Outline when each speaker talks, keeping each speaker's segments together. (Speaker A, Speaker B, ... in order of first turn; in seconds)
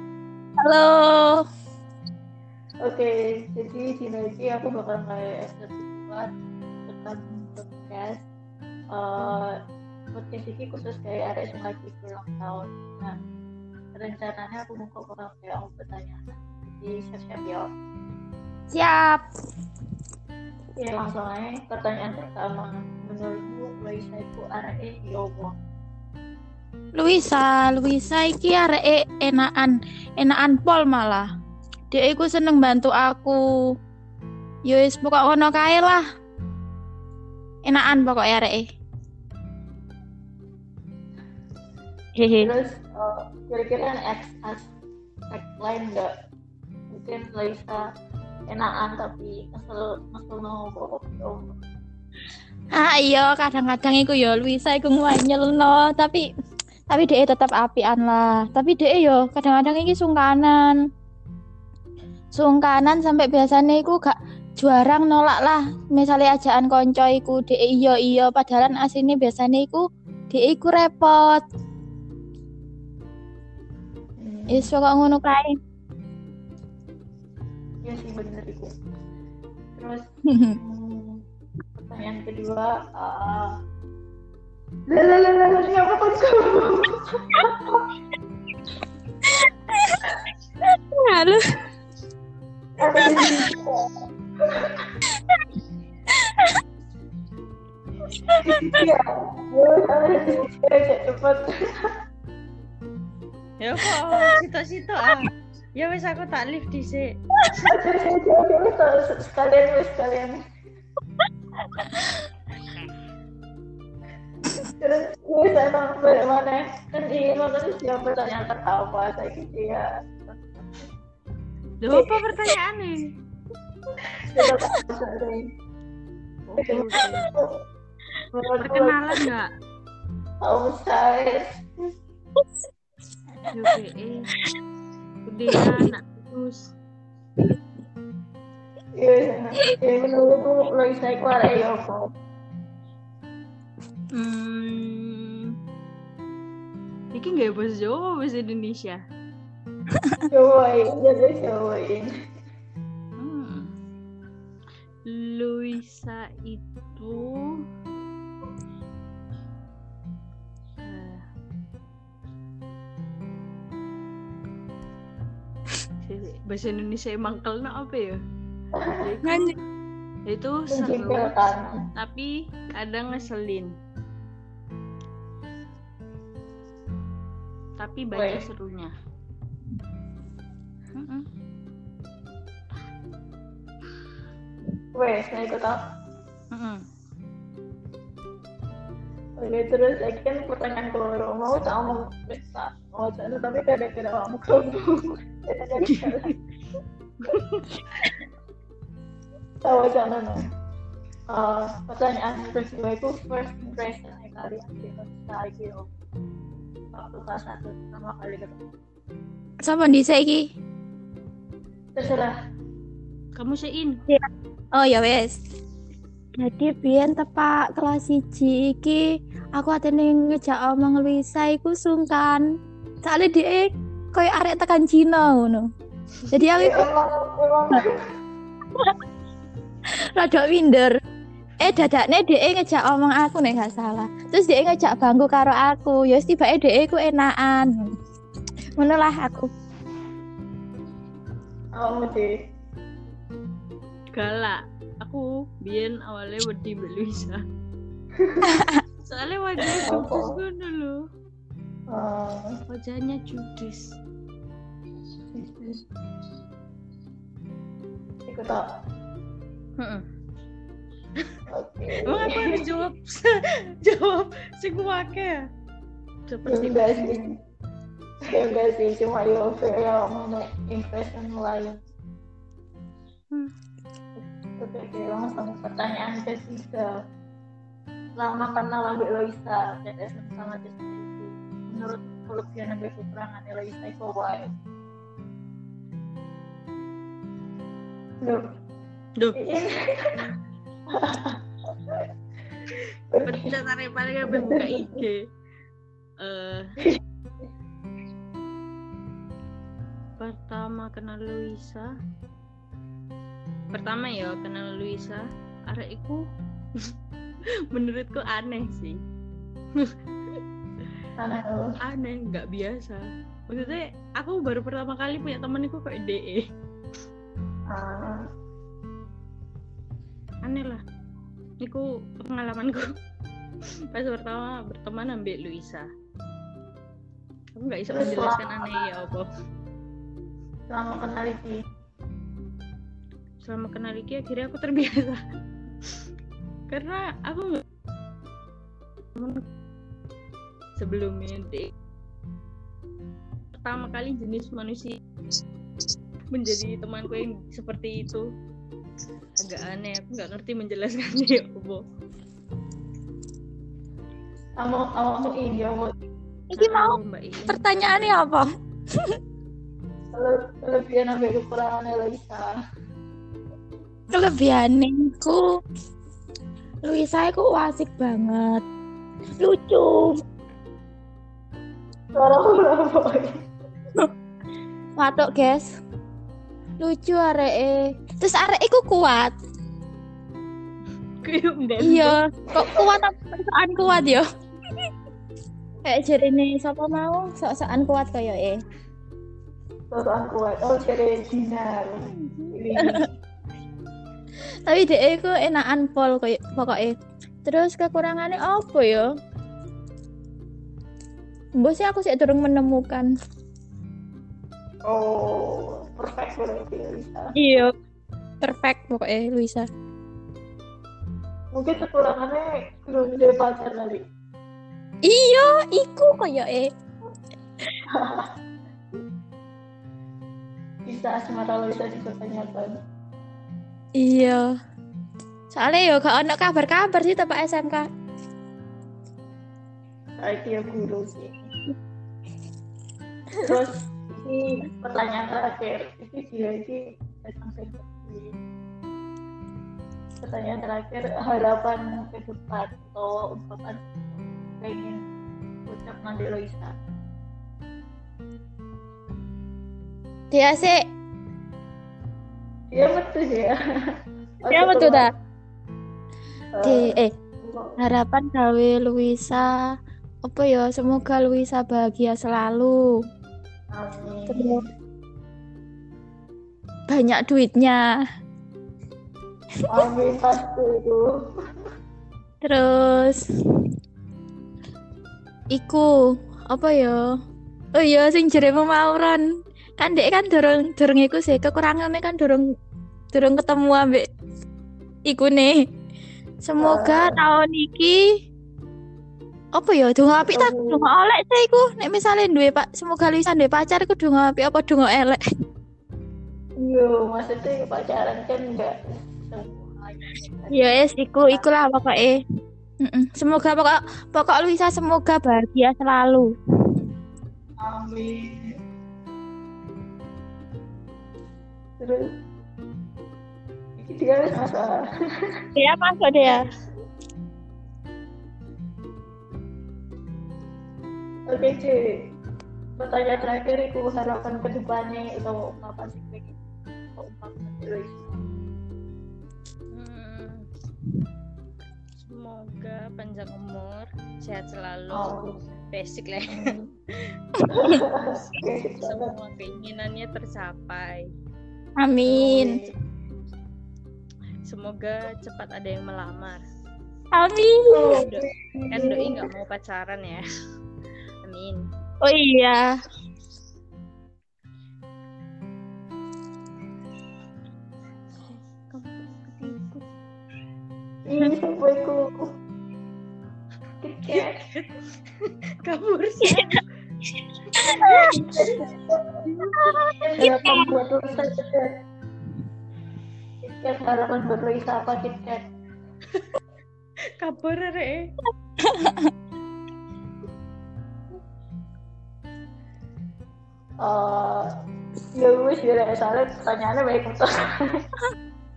Speaker A: 0.6-1.4, 18.7-19.2, 26.9-31.2, 31.9-33.4, 34.7-36.0, 37.6-38.7, 42.1-42.5, 52.7-56.2, 56.9-60.8, 62.3-71.4, 74.5-75.6, 91.0-91.4, 98.3-98.8, 111.8-112.1, 135.5-135.8, 169.2-169.5, 209.6-210.4, 214.1-215.4, 216.4-219.0, 219.5-222.4, 223.0-225.6, 226.3-226.9, 230.2-230.9, 231.6-237.7, 238.8-239.5, 356.5-358.5, 364.1-365.4, 366.8-368.6, 369.4-370.2, 375.0-375.7, 376.8-379.3, 381.8-384.2, 385.8-388.6, 394.7-399.1, 401.6-403.1, 407.4-407.7, 408.4-409.7, 415.1-416.7, 424.0-424.4, 425.5-427.9, 450.3-450.8, 454.5-455.1, 456.6-457.1, 457.8-459.5, 460.2-462.8, 464.3-464.6, 466.9-467.8, 472.4-473.2, 475.5-475.9, 476.5-477.0, 477.7-479.2, 479.8-482.4, 483.1-484.1, 485.1-485.6, 486.4-488.0, 489.5-495.2, 500.5-502.1, 502.8-506.3, 515.5-516.4, 537.5-537.8, 541.8-542.5, 547.1-548.0, 552.0-552.8, 567.6-568.2, 569.6-570.7, 578.7-579.1
Speaker B: 2.8-6.3, 6.9-8.2, 8.9-9.5, 10.1-13.1, 13.9-17.7, 20.8-25.5, 42.4-44.6, 45.3-46.1, 46.9-47.8, 48.5-51.4, 74.2-74.7, 77.8-78.7, 79.8-80.0, 80.6-81.2, 81.8-83.5, 84.9-87.5, 92.8-93.8, 98.5-101.5, 107.6-110.4, 114.6-120.5, 124.3-125.4, 126.6-127.6, 128.3-129.0, 130.4-131.4, 139.0-142.1, 150.3-152.1, 170.7-171.8, 178.1-178.4, 184.9-185.8, 189.4-196.3, 199.6-200.4, 201.3-205.9, 206.9-208.6, 211.9-212.3, 226.6-227.9, 241.8-242.3, 248.2-248.5, 249.8-250.4, 251.9-252.5, 255.3-255.8, 258.2-258.6, 261.5-262.5, 266.5-267.3, 268.3-271.8, 274.6-276.9, 278.2-284.5, 289.4-289.8, 290.9-291.4, 293.1-293.5, 294.3-295.0, 311.2-311.6, 317.7-318.2, 327.9-328.7, 330.7-331.5, 354.6-355.9, 360.1-362.5, 372.1-373.3, 382.6-382.8, 389.9-392.0, 392.5-393.1, 404.9-407.3, 411.5-414.0, 417.9-418.3, 420.9-422.8, 430.2-431.4, 433.4-438.4, 440.2-445.0, 445.6-446.7, 452.7-453.6, 454.4-455.1, 456.6-457.7, 463.7-464.6, 469.7-471.1, 486.6-487.2, 490.2-490.8, 496.6-501.5, 507.6-508.5, 511.8-512.1, 513.8-514.8, 521.3-521.8, 522.8-526.3, 527.0-528.2, 534.9-535.3, 536.3-536.7, 537.5-539.1, 542.1-542.7, 547.7-549.2, 561.0-562.1, 563.8-564.4, 568.1-569.0, 570.0-571.7, 573.4-575.4, 583.8-584.5, 585.1-587.6
Speaker C: 103.6-107.2, 121.8-123.0, 126.5-127.3, 128.6-129.5, 133.5-134.3, 135.2-136.7, 144.1-145.5, 147.1-149.0, 153.2-153.7, 155.1-157.3, 160.8-161.2, 166.0-168.2, 169.0-169.5, 170.3-171.3, 172.0-173.7, 177.8-178.9, 180.9-181.3, 186.5-186.8, 195.8-196.3, 197.3-197.8, 213.3-213.9, 244.1-247.4, 249.1-251.0, 252.7-253.9, 262.1-263.3, 263.8-265.4, 266.3-267.1, 293.2-295.2, 296.2-296.7, 300.2-301.9, 303.7-306.2, 307.7-309.0, 311.9-316.4, 320.4-320.8, 321.6-322.9, 323.9-325.9, 327.6-329.2, 333.4-335.2, 336.7-337.6, 340.8-341.7, 343.6-345.0, 346.3-348.2, 349.4-351.8, 356.6-358.2, 381.2-382.1, 392.1-392.6, 529.7-530.4, 532.0-536.4, 538.8-541.0, 544.4-546.4, 548.0-550.2, 551.2-551.6, 558.3-559.8, 564.1-564.7, 565.6-566.6, 567.8-568.4, 577.2-578.1